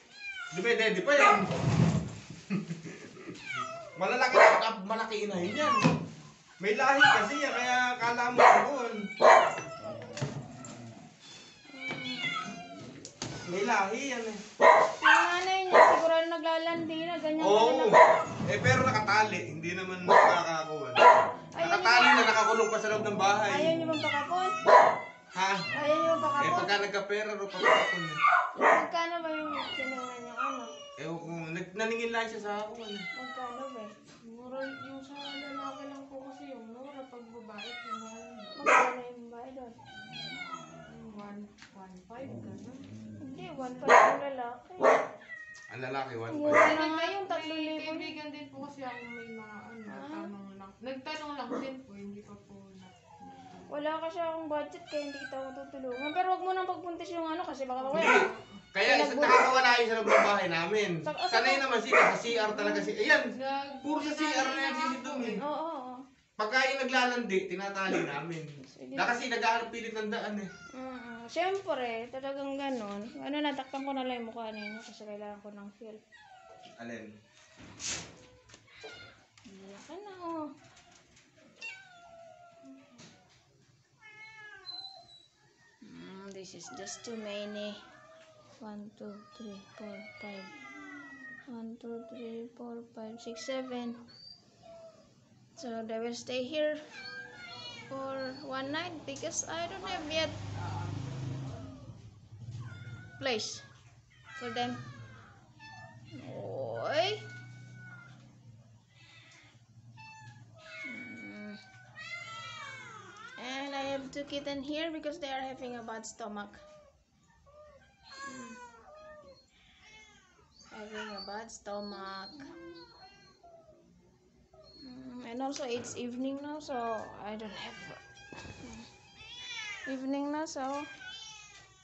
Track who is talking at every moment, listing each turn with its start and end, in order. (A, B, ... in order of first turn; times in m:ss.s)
0:00.5-0:01.4 A
0:02.5-0:03.1 A
0:04.0-0:05.8 A
0:06.6-0:09.1 A
0:11.7-0:12.5 B
0:13.5-0:14.4 A
0:15.0-0:18.0 B
0:17.4-0:23.7 A
0:21.5-0:22.3 B
0:23.5-0:24.6 B
0:25.3-0:25.7 A
0:25.7-0:26.9 B
0:26.4-0:28.2 A
0:28.5-0:30.7 B
0:31.0-0:33.0 A
0:33.1-0:33.9 B
0:34.2-0:38.6 C
0:38.6-0:39.8 B
0:40.9-0:42.9 C
0:43.2-0:45.1 B
0:45.7-0:46.7 A
0:46.3-0:48.1 B
0:46.4-0:53.7 C
0:49.9-0:50.3 B
0:53.7-0:58.2 B
0:57.8-0:58.6 C
0:57.9-1:03.2 A
0:58.8-0:59.6 B
1:01.0-1:01.6 B
1:02.5-1:05.4 C
1:03.8-1:05.4 A
1:05.4-1:06.0 B
1:06.4-1:10.5 A
1:08.6-1:09.2 B
1:10.7-1:16.0 B
1:16.8-1:17.1 A
1:19.5-1:20.4 B
1:25.8-1:27.8 B
1:28.6-1:30.5 B
1:31.5-1:34.0 B
1:35.6-1:36.8 B
1:37.9-1:40.4 B
1:43.2-1:43.6 B
1:44.4-1:44.8 B
1:46.1-1:47.3 B
1:50.8-1:51.6 B
1:53.4-1:56.6 B
1:58.2-1:58.6 B
2:00.7-2:02.5 B
2:04.8-2:08.9 B
2:09.8-2:10.9 B